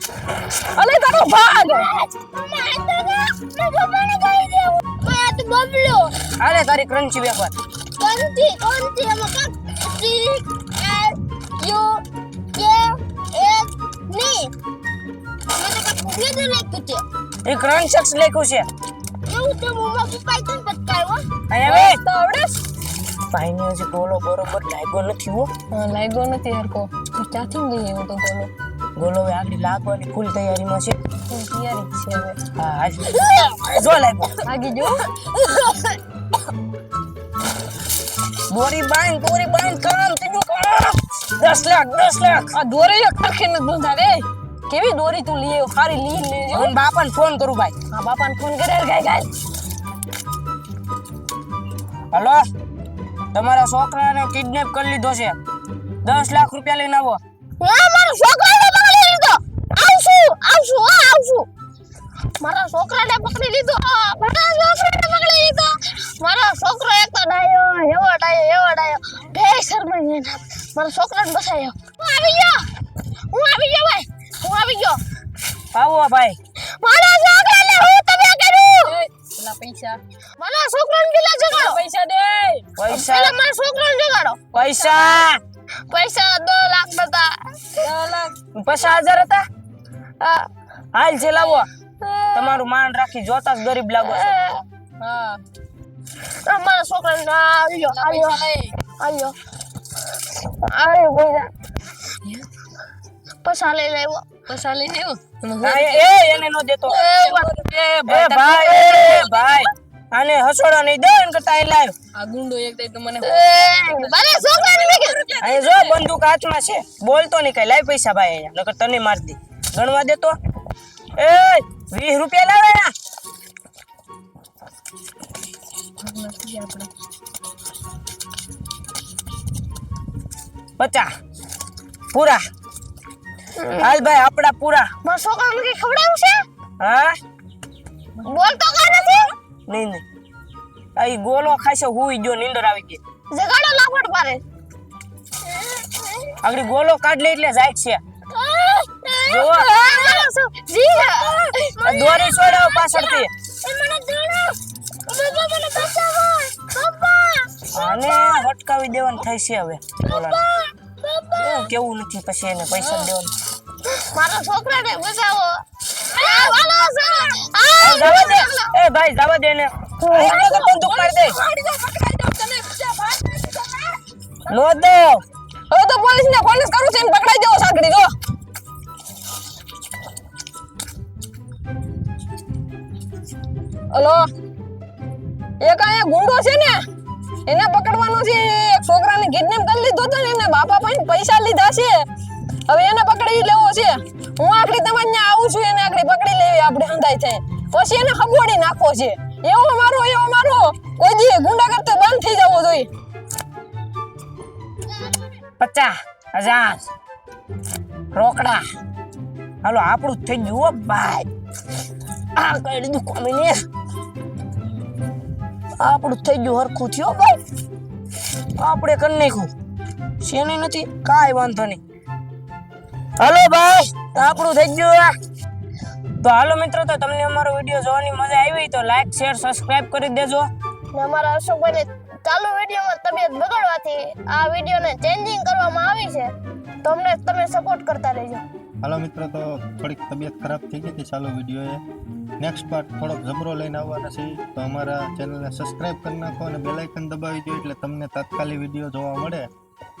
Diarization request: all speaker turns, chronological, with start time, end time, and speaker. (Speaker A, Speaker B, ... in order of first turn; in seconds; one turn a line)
Speaker A: 0.6-1.9
Speaker B: 1.6-6.1
Speaker C: 6.4-7.5
Speaker B: 8.0-12.0
Speaker B: 12.5-14.5
Speaker B: 15.5-17.0
Speaker C: 17.4-18.7
Speaker B: 19.3-21.2
Speaker C: 21.5-22.0
Speaker A: 21.6-22.6
Speaker C: 23.3-25.5
Speaker A: 25.7-28.5
Speaker C: 28.9-31.0
Speaker A: 31.3-32.4
Speaker C: 32.5-34.4
Speaker A: 34.4-36.0
Speaker C: 38.5-42.5
Speaker A: 42.5-46.7
Speaker C: 46.5-47.7
Speaker A: 47.9-49.3
Speaker C: 52.1-52.4
Speaker C: 53.3-55.4
Speaker C: 56.0-57.2
Speaker D: 57.6-61.5
Speaker D: 62.4-72.7
Speaker D: 73.3-75.0
Speaker C: 75.7-76.4
Speaker D: 76.8-79.0
Speaker A: 78.8-80.0
Speaker D: 80.4-81.8
Speaker A: 81.5-82.7
Speaker C: 82.8-83.3
Speaker D: 82.9-84.4
Speaker A: 84.5-85.1
Speaker C: 84.5-85.4
Speaker D: 85.9-87.9
Speaker A: 87.8-88.3
Speaker C: 88.5-89.5
Speaker D: 90.2-90.5
Speaker C: 90.9-91.7
Speaker D: 92.0-92.3
Speaker C: 92.3-94.3
Speaker D: 94.0-94.6
Speaker A: 95.0-95.4
Speaker D: 96.4-98.5
Speaker A: 97.9-98.8
Speaker D: 99.0-99.3
Speaker D: 100.6-101.5
Speaker D: 103.4-104.2
Speaker A: 104.5-106.1
Speaker C: 105.6-107.3
Speaker A: 106.9-109.7
Speaker C: 108.1-111.9
Speaker A: 112.1-116.0
Speaker D: 113.2-115.2
Speaker C: 115.4-120.3
Speaker C: 121.2-122.9
Speaker A: 126.0-126.9
Speaker C: 130.8-131.1
Speaker C: 132.1-132.4
Speaker D: 133.5-133.9
Speaker C: 133.8-134.9
Speaker D: 135.0-136.4
Speaker C: 136.8-137.2
Speaker D: 138.2-139.3
Speaker C: 139.7-140.0
Speaker C: 140.9-143.0
Speaker D: 143.3-144.4
Speaker B: 145.4-146.3
Speaker C: 146.4-148.0
Speaker D: 148.4-150.4
Speaker C: 149.3-149.7
Speaker B: 149.3-158.4
Speaker C: 151.8-153.3
Speaker C: 157.7-160.4
Speaker B: 160.1-161.7
Speaker C: 161.4-163.3
Speaker A: 162.7-163.1
Speaker D: 163.9-168.7
Speaker B: 166.2-166.5
Speaker C: 167.8-171.4
Speaker B: 168.0-168.3
Speaker D: 170.0-170.7
Speaker A: 170.8-174.0
Speaker C: 174.5-175.2
Speaker A: 175.7-178.2
Speaker A: 183.9-184.3
Speaker A: 185.6-186.8
Speaker A: 187.4-192.1
Speaker A: 192.7-202.9
Speaker C: 205.6-206.8
Speaker C: 208.1-208.6
Speaker C: 209.6-211.3
Speaker C: 212.3-213.6
Speaker C: 215.8-217.4
Speaker C: 218.6-219.5
Speaker C: 220.2-221.8
Speaker C: 223.2-225.1
Speaker C: 226.2-230.5
Speaker D: 230.9-236.3
Speaker D: 236.8-238.4
Speaker E: 238.8-241.8
Speaker E: 242.4-249.5